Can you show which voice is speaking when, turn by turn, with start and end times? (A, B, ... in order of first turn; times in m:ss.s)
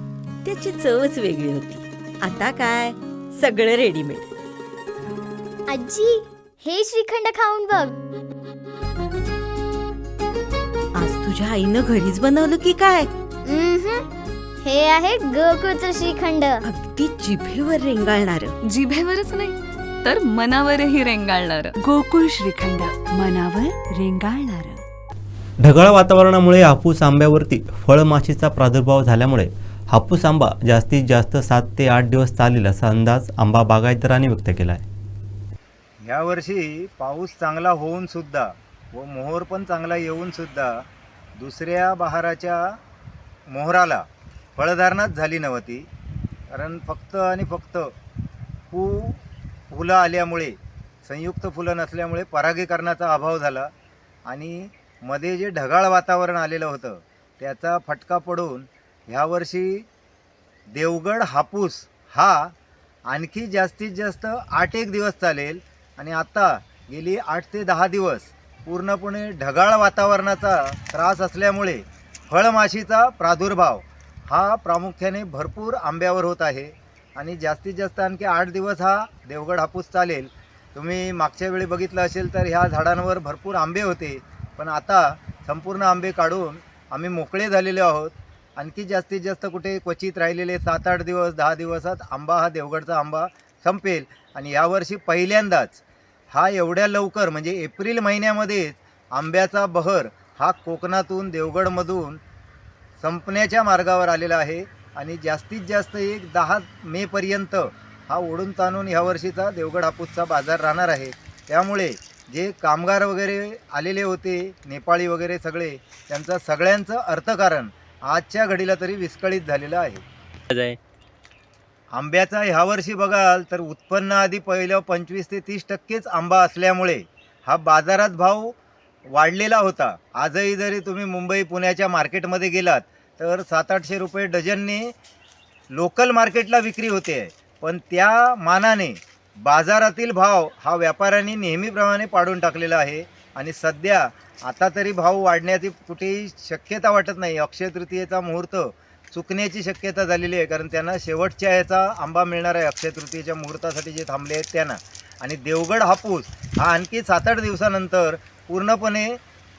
0:00.4-0:04.3 A
0:05.7-0:08.0 B
0:11.0-0:13.1 A
0:13.4-0:14.0 B
0:14.6-0:16.6 B
0:16.6-0:18.5 A
0:18.7-0:21.8 C
0:21.8-0:24.8 D
0:25.6-0:34.8 E
0:36.0-0:40.8 F
0:41.4-0:42.6 F
0:43.5-0:44.0 F
0:44.6-0:45.8 F
0:46.5-0:47.9 F
0:48.7-0:49.2 F
0:49.7-0:53.7 F
0:54.2-0:59.8 F
1:00.7-1:02.5 F
1:03.1-1:42.2 F
1:43.0-2:00.0 F
2:01.9-2:08.6 F
2:09.1-2:14.9 F
2:15.7-2:39.2 F